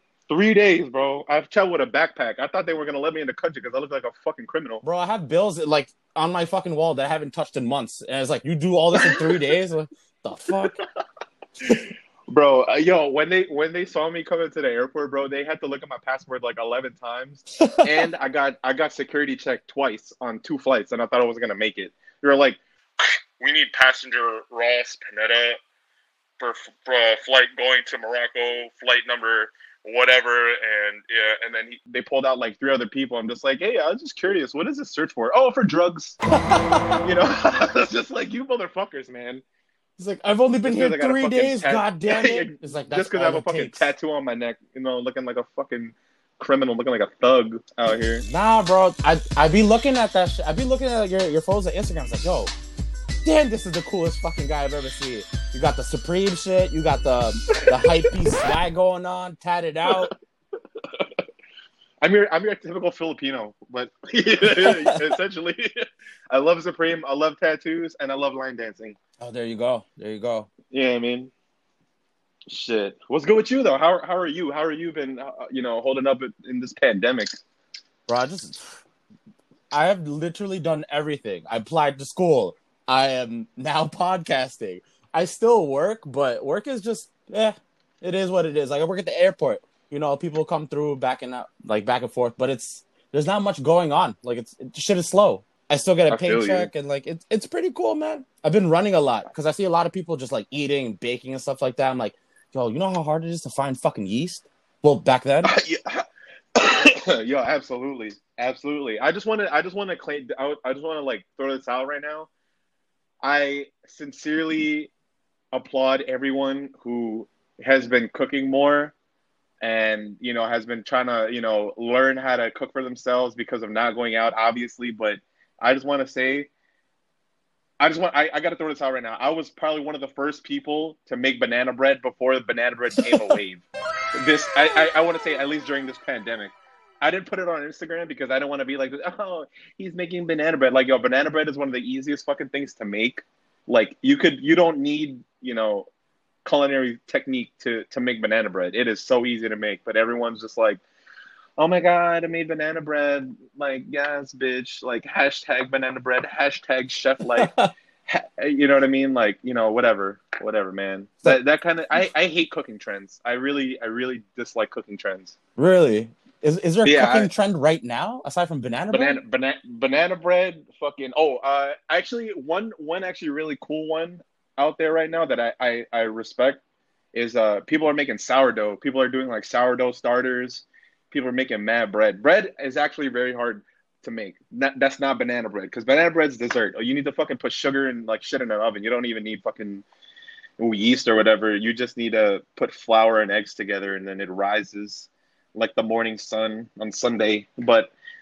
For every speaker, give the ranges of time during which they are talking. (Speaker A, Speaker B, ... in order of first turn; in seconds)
Speaker A: 0.3-4.8, 9.0-9.4, 11.6-25.6, 26.4-36.2, 37.0-39.4, 40.6-48.2, 62.0-69.0, 70.7-71.3, 72.5-77.4, 96.1-96.7, 105.4-106.0, 106.6-112.3, 113.2-114.9, 115.5-118.9, 119.6-126.5, 127.8-145.9, 146.4-150.8, 151.6-157.5, 158.1-165.3, 166.8-167.3, 168.9-176.6, 177.1-189.8, 190.6-197.9
Speaker B: 4.8-10.8, 17.6-17.9, 36.5-36.9, 40.0-43.9, 48.3-52.5, 53.2-60.1, 64.4-65.0, 69.2-70.5, 78.1-78.8, 79.7-105.5, 157.3-157.7, 165.6-169.2